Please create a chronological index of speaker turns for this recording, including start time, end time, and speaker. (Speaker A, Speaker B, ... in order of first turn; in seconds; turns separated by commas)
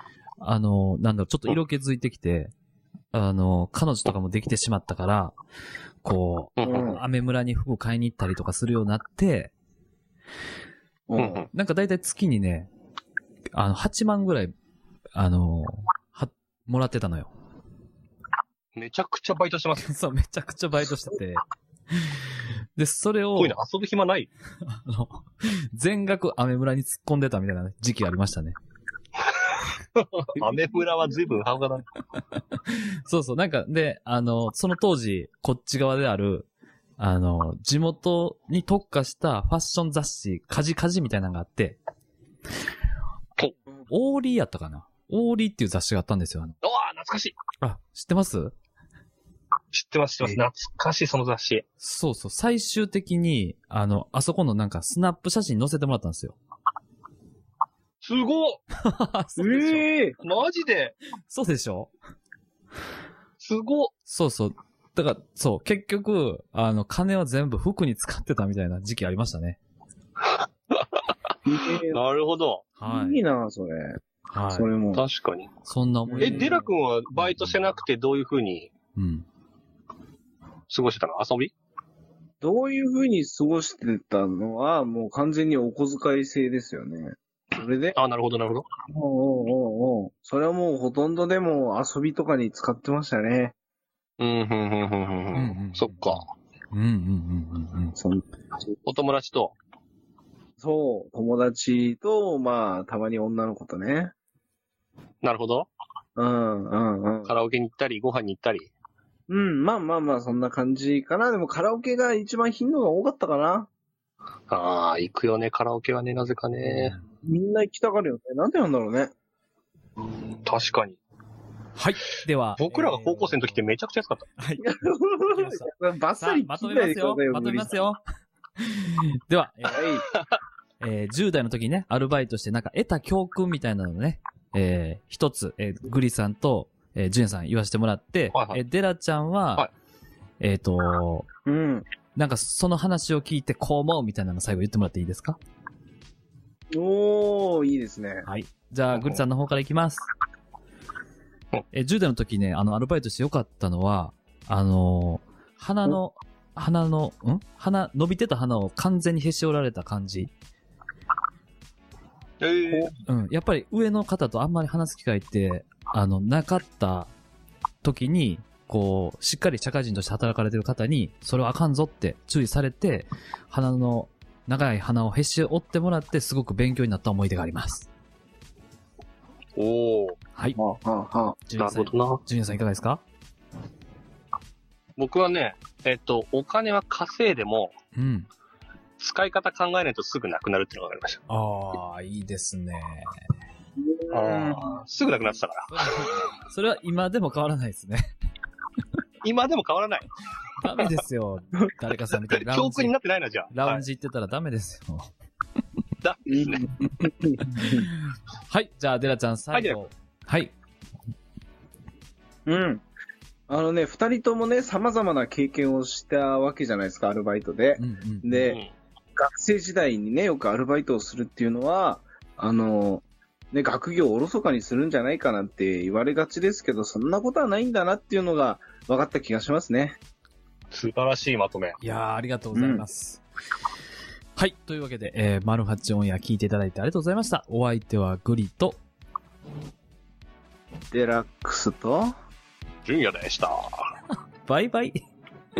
Speaker A: 0.4-2.5, Speaker A: 3.1-5.3, Speaker A: 6.0-9.5, Speaker B: 6.6-6.9, Speaker C: 6.6-7.0, Speaker C: 11.1-11.4, Speaker B: 11.2-11.5, Speaker A: 11.5-12.7, Speaker A: 13.5-14.5, Speaker A: 15.1-17.3, Speaker B: 18.8-19.9, Speaker A: 19.8-21.4, Speaker A: 21.9-22.2, Speaker A: 22.8-23.6, Speaker B: 23.3-24.3, Speaker A: 24.6-28.5, Speaker B: 30.0-31.9, Speaker A: 32.7-41.8, Speaker A: 43.9-46.5, Speaker B: 46.6-47.4, Speaker A: 47.6-48.5, Speaker B: 49.7-51.6, Speaker A: 51.8-56.4, Speaker B: 58.0-58.6, Speaker A: 58.8-59.8, Speaker C: 59.4-60.2, Speaker B: 60.2-61.0, Speaker A: 61.3-61.9, Speaker B: 63.4-63.9, Speaker A: 64.0-69.6, Speaker B: 70.7-71.0, Speaker C: 71.5-72.0, Speaker B: 71.9-72.7, Speaker A: 72.8-73.2, Speaker C: 72.8-75.0, Speaker A: 74.3-74.8, Speaker B: 74.9-75.5, Speaker A: 75.6-76.6, Speaker C: 76.0-76.6, Speaker B: 76.2-78.7, Speaker A: 77.2-77.6, Speaker A: 79.0-79.2, Speaker B: 80.7-81.5, Speaker C: 82.4-88.0, Speaker B: 87.9-88.7, Speaker C: 88.9-93.5, Speaker B: 94.2-96.2, Speaker A: 95.3-98.0, Speaker C: 98.0-98.2, Speaker B: 98.8-99.5, Speaker C: 100.6-104.1, Speaker B: 105.2-105.7, Speaker C: 106.2-107.3, Speaker B: 107.2-108.7, Speaker C: 109.3-113.7, Speaker B: 114.5-117.0, Speaker A: 116.7-117.0, Speaker C: 117.2-119.1, Speaker B: 120.4-121.0, Speaker A: 121.8-123.7, Speaker B: 122.6-124.2, Speaker A: 124.4-124.7, Speaker C: 124.6-127.9, Speaker A: 125.3-128.0, Speaker A: 128.6-129.9, Speaker C: 129.7-130.0, Speaker A: 130.8-139.7, Speaker B: 138.3-138.6, Speaker A: 140.4-141.3, Speaker C: 141.4-141.8, Speaker A: 142.1-145.4, Speaker C: 146.7-148.3, Speaker A: 148.2-150.0, Speaker B: 148.9-149.2, Speaker A: 151.7-160.3, Speaker B: 162.4-162.9, Speaker C: 162.7-162.9, Speaker A: 163.0-167.1, Speaker A: 167.8-177.9, Speaker B: 179.6-180.2, Speaker C: 180.5-181.4, Speaker A: 181.4-183.0, Speaker B: 181.6-182.2, Speaker B: 185.0-187.8, Speaker A: 187.9-188.3, Speaker B: 189.0-191.2, Speaker A: 191.3-193.1, Speaker C: 193.8-194.8, Speaker B: 194.1-196.1, Speaker A: 195.7-198.1, Speaker B: 199.2-200.1, Speaker A: 200.6-202.9, Speaker B: 202.1-203.8, Speaker A: 203.5-205.1, Speaker B: 206.0-206.6, Speaker C: 206.3-207.9, Speaker A: 207.4-210.5, Speaker B: 209.5-209.8, Speaker C: 212.4-212.8, Speaker C: 213.5-218.6, Speaker A: 217.8-218.5, Speaker B: 218.4-218.7, Speaker C: 219.2-230.0, Speaker B: 230.7-231.8, Speaker A: 231.8-233.2, Speaker C: 232.5-232.8, Speaker A: 234.3-238.8, Speaker C: 240.9-242.1, Speaker B: 242.8-243.9, Speaker A: 244.4-245.0